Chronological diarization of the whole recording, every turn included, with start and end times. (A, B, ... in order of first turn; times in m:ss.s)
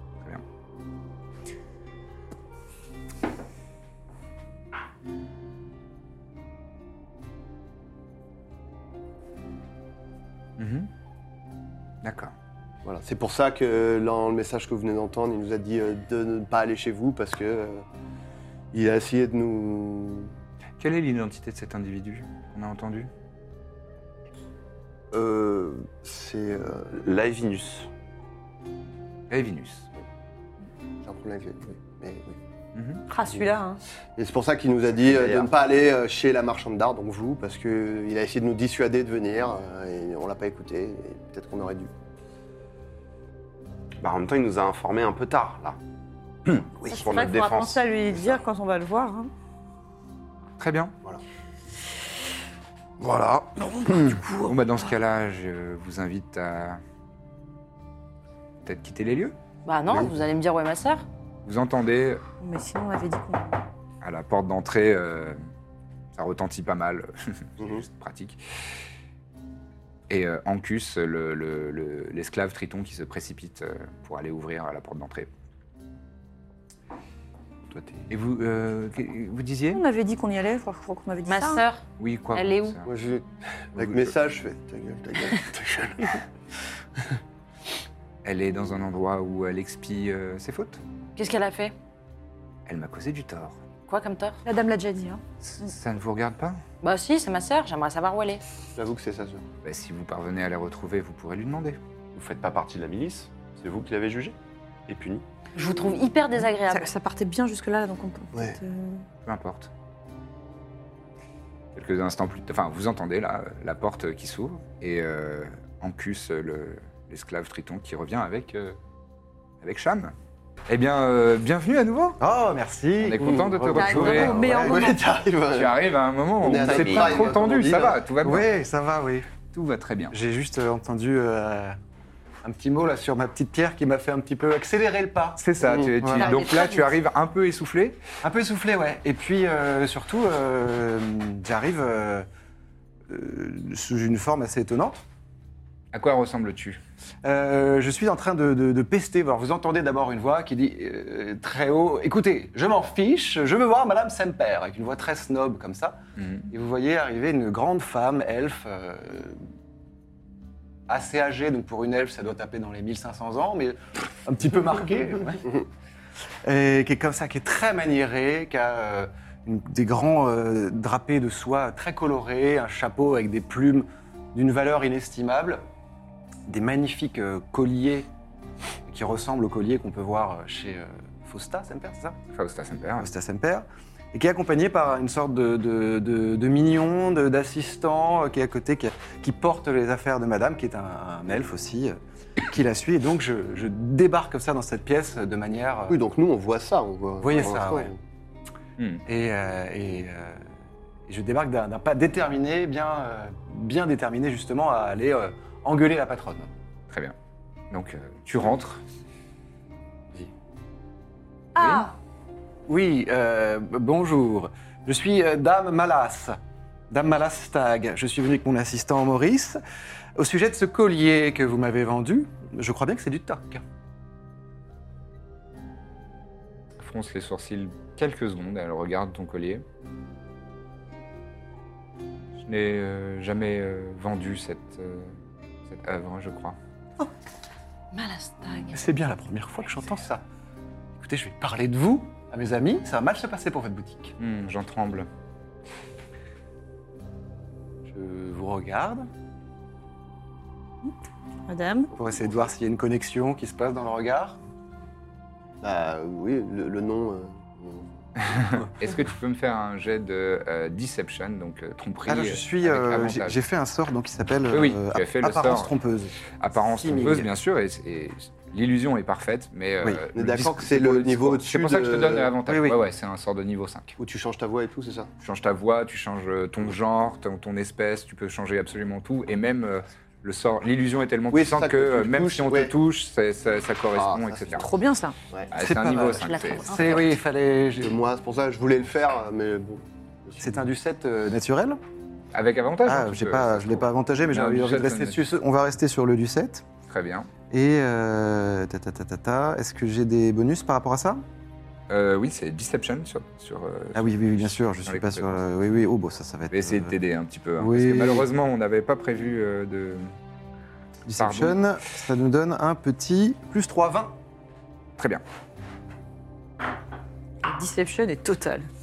0:10.6-0:10.9 A
0:12.0-0:12.3 A
0:12.8-0:17.8 B
0:18.7-0:20.3 B
0:20.8-0:23.1 A
0:25.1-0:26.9 B
0:26.9-0:27.9 C
0:29.3-0:29.9 A
0:31.0-0:32.4 B
0:32.7-0:33.0 A
0:33.1-0:33.8 D
0:34.2-0:41.9 B
0:35.0-0:35.5 C
0:44.0-0:45.8 C
0:46.5-0:48.4 C
0:46.9-0:49.3 D
0:46.9-0:47.5 E
0:50.6-0:50.9 A
0:53.0-0:53.5 B
0:53.6-0:54.6 D
0:54.4-0:56.8 A
0:58.6-0:59.4 A
0:59.6-1:01.0 E
1:01.4-1:02.2 A
1:02.4-1:03.6 D
1:04.0-1:05.4 A
1:06.1-1:08.4 A
1:10.1-1:15.3 A
1:17.7-1:18.1 C
1:18.1-1:19.8 A
1:19.7-1:21.6 D
1:21.3-1:22.8 E
1:22.0-1:22.9 A
1:22.9-1:26.2 B
1:23.8-1:24.1 A
1:28.2-1:30.8 A
1:31.2-1:31.7 E
1:32.7-1:33.6 A
1:33.9-1:34.4 E
1:34.4-1:35.2 D
1:35.4-1:36.6 A
1:36.8-1:38.4 E
1:38.8-1:39.4 B
1:39.6-1:41.8 A
1:42.1-1:44.4 C
1:44.9-1:45.2 C
1:45.6-1:46.9 E
1:46.7-1:49.0 D
1:49.2-1:49.7 A
1:51.7-1:58.8 A
1:59.6-2:00.1 A
2:00.7-2:02.2 A
2:02.2-2:04.9 F
2:03.0-2:04.5 A
2:03.8-2:04.3 E
2:03.9-2:05.0 D
2:04.6-2:05.8 B
2:05.5-2:08.5 A
2:06.4-2:08.0 B
2:06.6-2:07.2 C
2:08.2-2:09.4 F
2:09.5-2:10.2 A
2:10.1-2:11.8 F
2:12.4-2:15.4 F
2:15.4-2:18.0 A
2:15.6-2:15.9 B
2:16.0-2:16.3 F
2:16.2-2:16.8 E
2:16.4-2:16.7 D
2:18.2-2:22.3 F
2:23.1-2:25.0 F
2:25.9-2:26.8 A
2:27.2-2:36.0 F
2:36.2-2:36.5 A
2:36.5-2:39.4 F
2:40.9-2:45.4 F
2:46.4-2:55.6 F
2:56.5-2:58.1 F
2:58.9-3:02.2 F
3:02.3-3:03.1 A
3:03.0-3:16.0 F
3:15.9-3:18.0 B
3:17.2-3:17.9 F
3:18.8-3:19.0 A
3:19.1-3:20.5 F
3:21.1-3:26.5 F
3:27.7-3:28.8 A
3:31.6-3:31.9 D
3:31.6-3:31.9 A
3:32.7-3:36.4 F
3:36.9-3:39.6 F
3:40.2-3:43.6 F
3:46.8-3:49.6 A
3:52.4-3:55.2 A
3:55.7-3:56.6 A
3:57.9-3:58.8 E
3:58.7-4:00.2 F
4:01.0-4:04.2 F
4:04.2-4:05.1 A
4:07.9-4:09.1 F
4:11.5-4:11.9 D
4:11.9-4:14.4 F
4:12.0-4:12.5 B
4:15.6-4:17.9 B
4:18.3-4:23.4 A
4:22.1-4:27.3 F
4:24.5-4:25.8 A
4:26.4-4:34.0 A
4:30.2-4:32.3 B
4:32.5-4:32.8 F
4:34.0-4:35.1 B
4:35.2-4:44.7 A
4:41.3-4:42.7 B
4:44.0-4:44.7 B
4:44.6-4:45.2 D
4:45.5-4:47.1 A
4:45.5-4:48.0 F
4:46.2-4:47.2 E
4:47.8-4:50.6 B
4:50.4-4:51.8 F
4:52.3-4:55.2 A
4:52.8-4:56.7 F
4:56.9-4:57.3 A
4:57.5-5:01.2 F
5:01.9-5:05.4 A
5:03.9-5:07.0 F
5:06.5-5:10.1 A
5:07.6-5:08.3 F
5:11.1-5:14.2 F
5:11.2-5:11.7 A
5:15.0-5:15.2 A
5:17.4-5:18.7 D